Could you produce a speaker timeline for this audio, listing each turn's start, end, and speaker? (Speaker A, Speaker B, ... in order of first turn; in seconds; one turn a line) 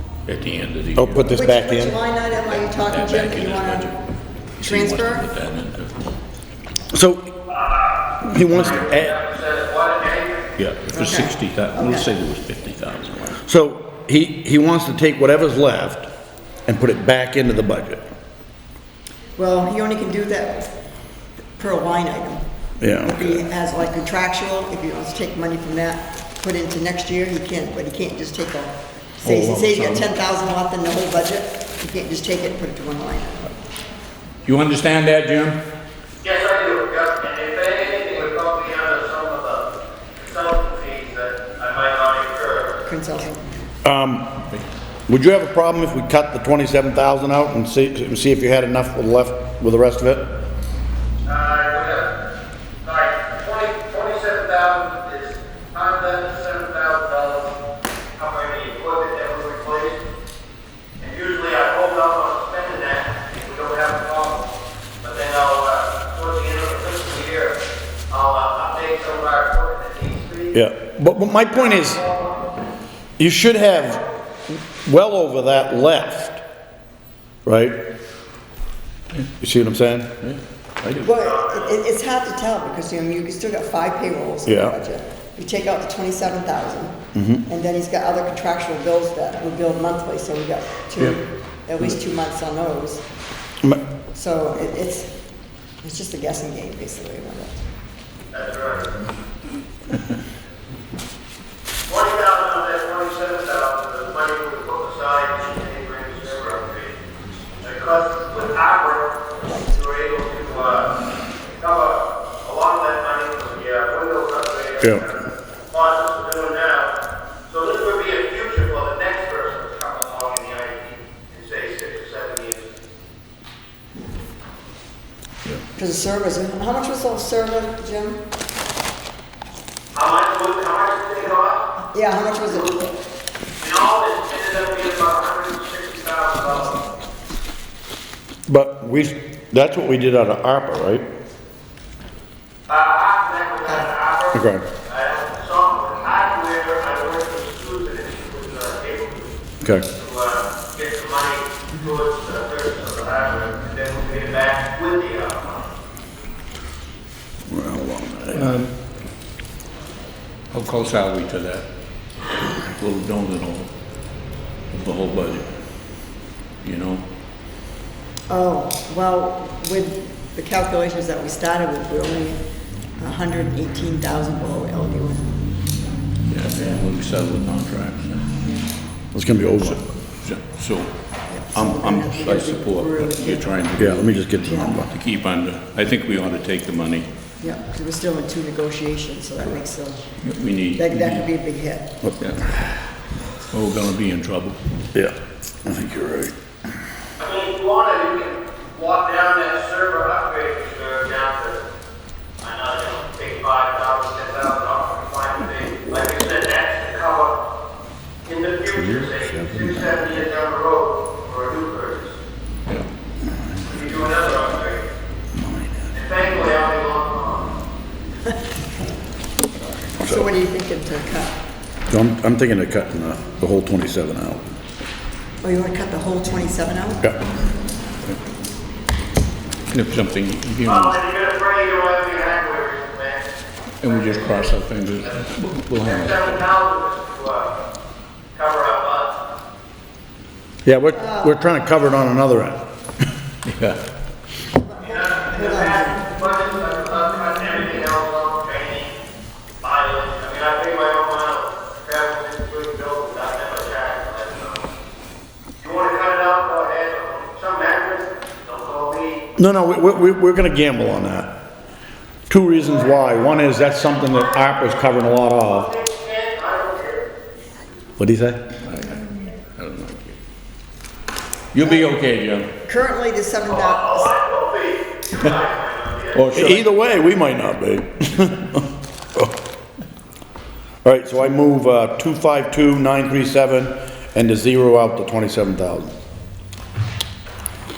Speaker A: 0.3-1.3
Speaker B: 1.0-2.0
Speaker C: 1.3-4.0
Speaker A: 2.5-4.0
Speaker A: 4.6-6.1
Speaker C: 4.6-5.3
Speaker B: 6.9-7.3
Speaker D: 7.5-10.6
Speaker B: 8.2-9.1
Speaker A: 8.4-8.9
Speaker A: 10.6-13.4
Speaker C: 10.9-12.1
Speaker B: 13.4-16.1
Speaker B: 16.7-18.1
Speaker C: 19.4-20.7
Speaker C: 21.6-22.4
Speaker B: 22.8-23.4
Speaker C: 23.0-33.5
Speaker A: 29.2-30.1
Speaker A: 34.5-35.6
Speaker D: 36.2-42.8
Speaker C: 42.9-43.4
Speaker B: 43.8-44.3
Speaker B: 45.1-50.3
Speaker D: 51.2-52.1
Speaker D: 52.8-57.5
Speaker D: 58.2-60.0
Speaker D: 61.0-64.5
Speaker D: 65.0-67.6
Speaker D: 68.1-70.6
Speaker B: 70.5-72.0
Speaker D: 71.5-72.6
Speaker B: 73.2-76.4
Speaker B: 77.5-77.8
Speaker B: 79.4-80.2
Speaker A: 80.2-81.1
Speaker C: 81.0-93.0
Speaker D: 81.1-81.8
Speaker B: 84.5-84.8
Speaker B: 87.2-87.4
Speaker C: 94.1-95.1
Speaker C: 95.8-97.6
Speaker D: 98.3-98.9
Speaker D: 101.9-107.0
Speaker D: 107.6-111.0
Speaker D: 111.6-116.9
Speaker D: 117.5-122.8
Speaker C: 125.8-128.2
Speaker D: 129.9-131.7
Speaker C: 131.9-132.8
Speaker D: 132.6-132.8
Speaker D: 133.6-136.8
Speaker B: 138.5-141.1
Speaker D: 142.7-149.4
Speaker B: 144.3-144.6
Speaker B: 149.6-149.9
Speaker D: 149.9-155.7
Speaker B: 157.5-158.6
Speaker A: 158.3-158.7
Speaker A: 160.5-161.7
Speaker A: 162.7-163.7
Speaker A: 164.7-165.5
Speaker A: 166.6-167.0
Speaker C: 168.3-172.4
Speaker C: 173.0-175.3
Speaker A: 176.3-178.4
Speaker B: 179.1-179.8
Speaker A: 179.6-180.9
Speaker C: 181.3-183.7
Speaker A: 181.5-187.1
Speaker B: 183.8-184.9
Speaker C: 184.5-184.8
Speaker C: 187.4-190.0
Speaker A: 190.2-191.3
Speaker C: 190.8-192.0
Speaker A: 192.2-192.8
Speaker A: 193.5-194.6
Speaker B: 194.9-196.3
Speaker D: 197.2-201.6
Speaker D: 202.4-207.4
Speaker D: 208.3-212.2
Speaker D: 213.6-214.8
Speaker D: 215.9-217.6
Speaker C: 220.0-221.3
Speaker B: 221.9-224.4
Speaker C: 225.4-227.1
Speaker A: 229.7-231.0
Speaker D: 230.7-233.3
Speaker A: 233.8-236.4
Speaker D: 233.8-235.2
Speaker D: 235.8-237.6
Speaker D: 238.3-239.2
Speaker B: 240.7-242.6
Speaker C: 240.9-241.4
Speaker A: 243.4-243.8
Speaker C: 244.5-246.1
Speaker D: 244.8-248.9
Speaker D: 249.6-254.7
Speaker D: 255.6-259.3
Speaker B: 259.4-261.3
Speaker B: 262.3-265.7
Speaker D: 262.6-267.1
Speaker B: 268.0-268.5
Speaker A: 268.6-270.2
Speaker A: 271.5-272.5
Speaker C: 271.6-271.9
Speaker C: 272.6-274.1
Speaker D: 273.5-276.3
Speaker A: 276.1-276.6
Speaker B: 276.3-278.6
Speaker B: 280.8-285.9